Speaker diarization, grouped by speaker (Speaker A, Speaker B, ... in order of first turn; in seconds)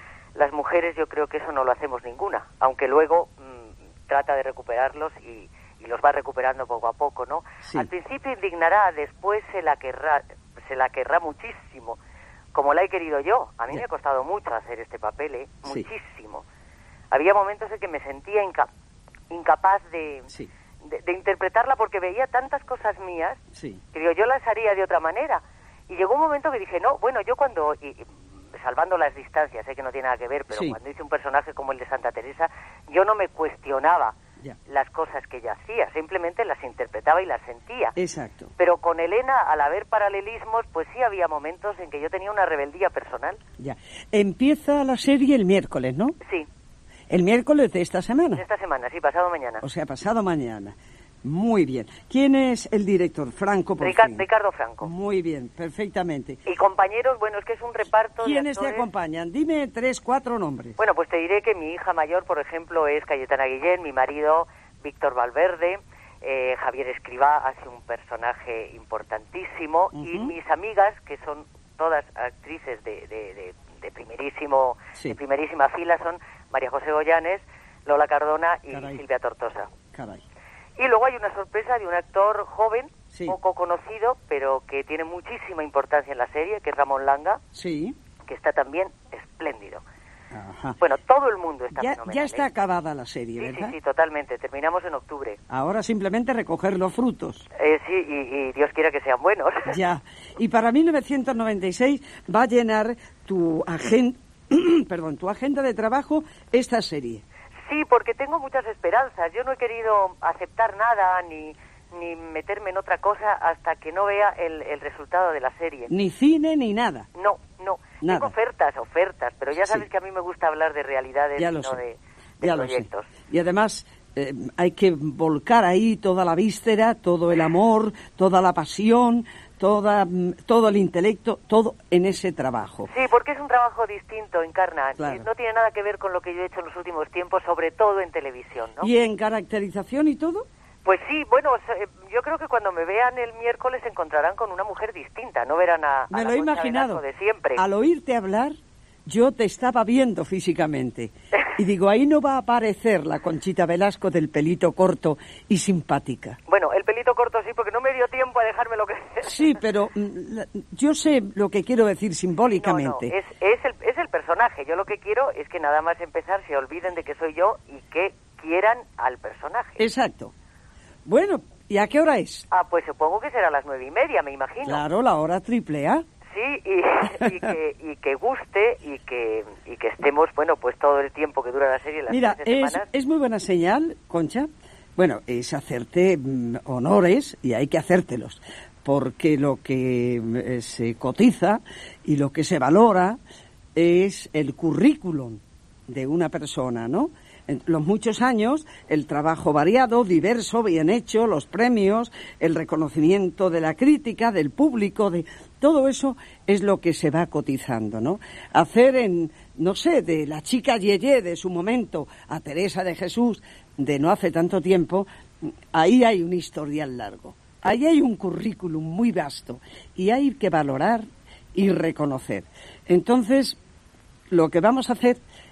Speaker A: 0.3-12.0, 12.5-16.4, 17.1-18.7, 19.3-20.3, 20.8-23.4, 23.9-37.9, 38.6-43.4, 48.3-49.6, 53.8-54.9, 56.4-58.9, 60.8-79.7, 80.8-87.4, 88.3-89.8, 90.8-92.5, 93.4-95.4, 97.5-99.8, 107.7-115.9, 117.1-123.1, 132.9-138.9, 140.8-147.6, 156.5-159.6, 162.5-169.9, 172.5-174.8, 176.3-182.9
Speaker B: 7.6-7.9, 23.5-23.8, 30.5-30.8, 38.0-38.5, 43.6-46.1, 47.1-48.4, 49.6-54.2, 54.8-56.4, 58.2-60.8, 69.9-70.3, 78.7-79.0, 79.9-80.2, 87.5-87.9, 90.3-90.8, 91.7-93.7, 95.5-97.4, 99.7-107.2, 115.9-117.1, 118.0-118.3, 119.6-119.8, 121.4-121.8, 122.4-132.9, 135.0-135.2, 138.8-140.4, 146.1-147.0, 147.6-148.5, 149.1-156.4, 159.2-163.1, 169.8-170.3, 171.1-172.4, 174.6-176.0, 182.1-193.2, 193.7-223.6, 224.3-225.2